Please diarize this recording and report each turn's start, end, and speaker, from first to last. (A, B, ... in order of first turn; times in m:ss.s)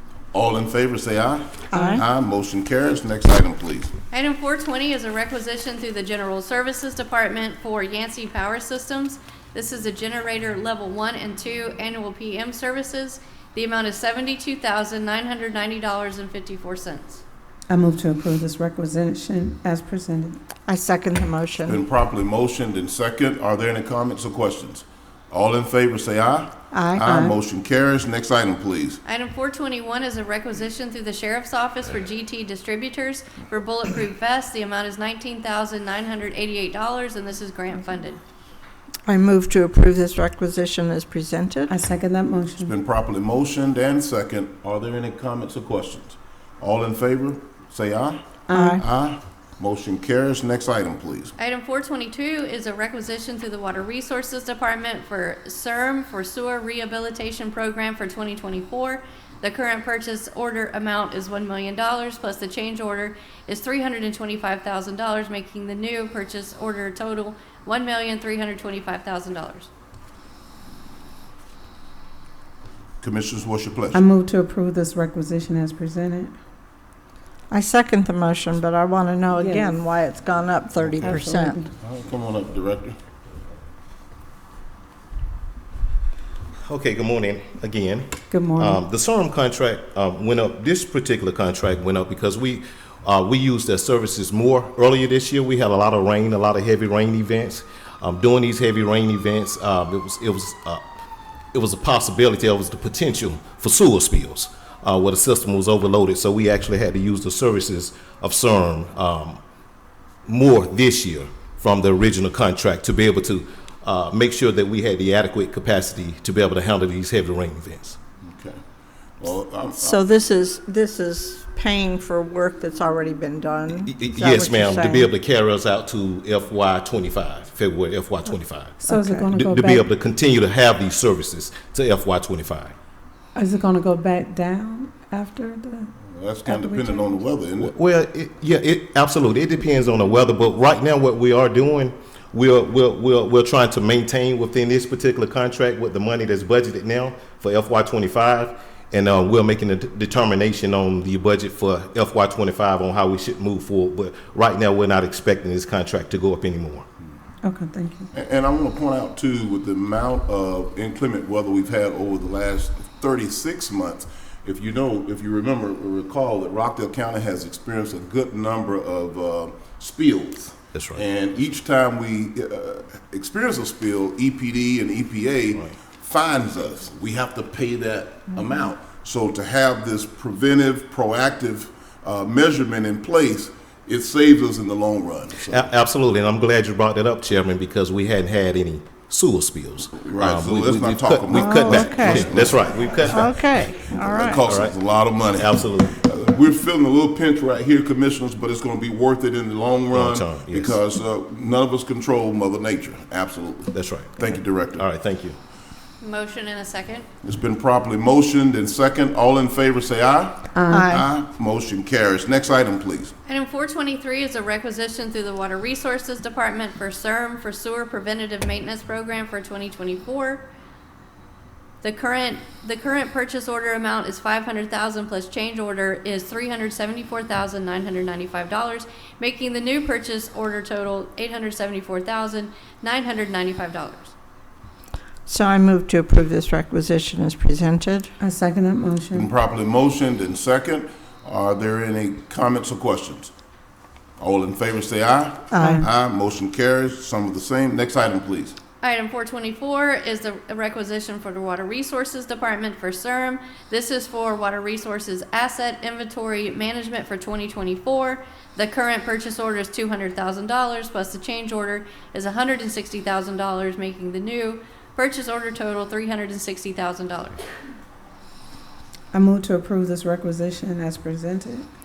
0:00.3-0:03.9 A
0:01.7-0:02.0 B
0:04.1-0:17.2 C
0:17.7-0:20.4 D
0:20.7-0:21.8 B
0:21.7-0:29.0 A
0:26.7-0:27.0 B
0:27.0-0:27.4 D
0:29.1-0:38.2 C
0:39.1-0:41.7 B
0:41.7-0:42.7 D
0:42.6-0:48.2 A
0:48.5-0:48.8 D
0:48.5-0:48.8 B
0:48.8-0:51.3 A
0:51.4-1:09.7 C
1:13.0-1:14.0 A
1:13.9-1:16.4 D
1:17.5-1:21.6 B
1:19.4-1:19.8 D
1:21.0-1:21.7 D
1:21.8-1:23.0 A
1:26.6-1:40.9 E
1:28.3-1:28.8 D
1:41.5-1:49.4 E
1:50.3-1:58.0 E
1:58.2-1:58.6 A
1:59.2-2:00.1 A
1:59.8-2:05.1 B
2:03.9-2:12.8 E
2:08.8-2:09.9 D
2:13.4-2:15.9 D
2:16.0-2:17.7 A
2:16.4-2:17.2 D
2:17.6-2:36.8 E
2:37.4-2:38.1 D
2:38.1-3:05.7 A
2:50.7-2:51.0 E
3:05.5-3:13.3 E
3:10.0-3:13.3 A
3:11.3-3:12.4 B
3:13.1-3:14.4 B
3:13.9-3:24.8 A
3:14.4-3:14.8 E
3:15.3-3:15.9 E
3:19.9-3:20.8 E
3:23.7-3:25.4 E
3:26.0-3:27.1 C
3:27.2-3:33.1 A
3:30.6-3:30.9 D
3:30.7-3:31.1 B
3:33.3-3:40.4 C
3:41.8-3:54.1 C
3:55.3-3:58.1 B
3:58.2-3:59.3 D
3:59.1-4:03.3 A
4:04.2-4:08.6 A
4:05.5-4:05.9 B
4:08.8-4:27.4 C
4:29.1-4:31.7 D